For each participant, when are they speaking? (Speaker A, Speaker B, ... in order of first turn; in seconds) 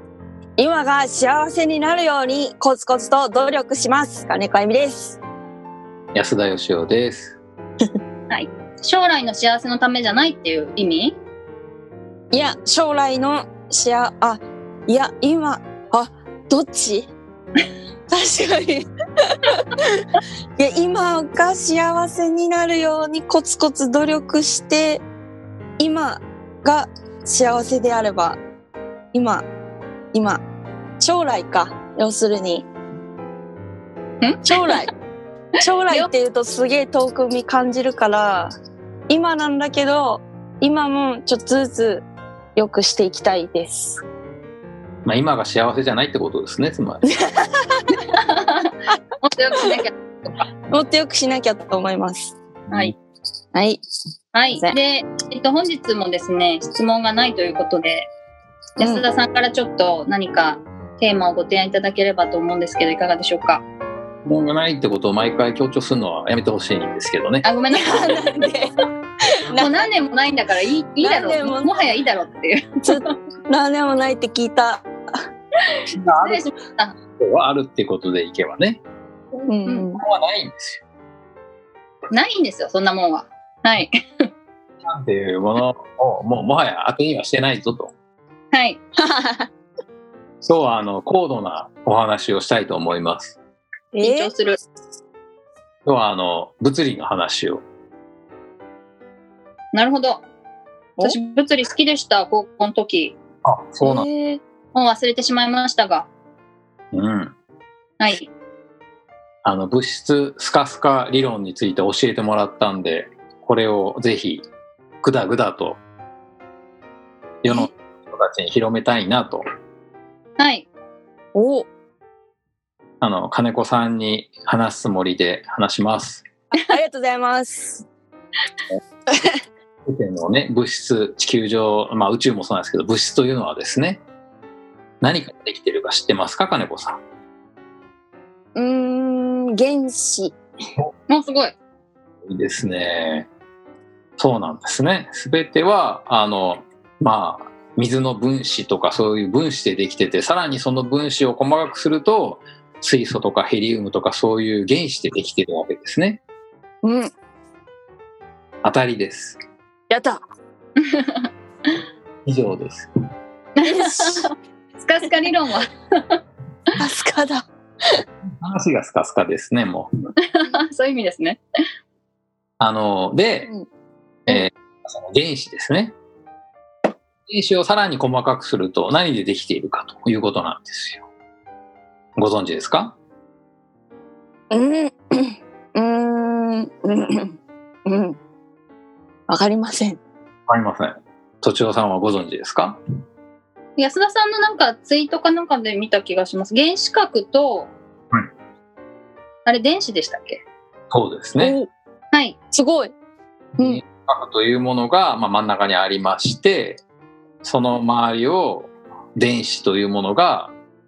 Speaker A: 0.6-5.2, 12.3-17.1, 18.1-25.0, 25.8-28.4, 29.1-29.5, 30.1-30.4, 31.0-32.7, 34.4-34.9, 35.6-38.5, 39.1-44.0, 47.1-48.0, 50.7-52.4, 53.5-53.8, 54.5-54.8, 58.8-59.0, 67.7-68.7, 69.5-69.9, 71.0-72.0, 72.8-74.8, 79.3-80.0, 89.0-89.5, 93.9-94.3, 103.8-104.4, 121.3-121.7, 126.5-127.8, 129.1-129.4, 138.6-140.4, 156.8-157.1, 159.9-160.2, 163.6-164.3, 166.8-167.5, 184.5-188.2, 189.3-190.0, 201.4-201.7, 202.5-202.9
Speaker B: 6.1-7.4, 45.0-47.0, 64.2-67.6, 75.9-76.5, 77.1-78.8, 79.9-80.8, 84.8-88.0, 90.4-93.4, 95.8-97.6, 103.4-104.1, 106.9-107.3, 109.4-114.5, 115.0-115.8, 117.4-119.4, 123.0-126.3, 129.9-134.0, 135.0-137.0, 142.3-143.3, 144.2-156.2, 158.6-159.4, 162.2-162.9, 168.0-169.9, 172.6-173.5, 174.3-176.0, 177.3-181.1, 182.2-183.0, 190.5-192.8, 200.9-201.6, 203.6-206.8, 207.4-210.6
Speaker C: 8.3-11.2, 34.2-34.5, 48.1-49.9, 54.3-58.1, 58.8-63.6, 67.4-68.4, 69.6-73.1, 75.9-77.0, 82.1-84.3, 88.5-88.8, 94.1-94.6, 99.7-100.2, 101.0-103.2, 104.7-106.1, 108.0-108.3, 120.4-120.7, 141.1-141.5, 160.8-161.7, 163.6-166.2, 170.2-171.4, 193.8-197.7, 199.5-200.4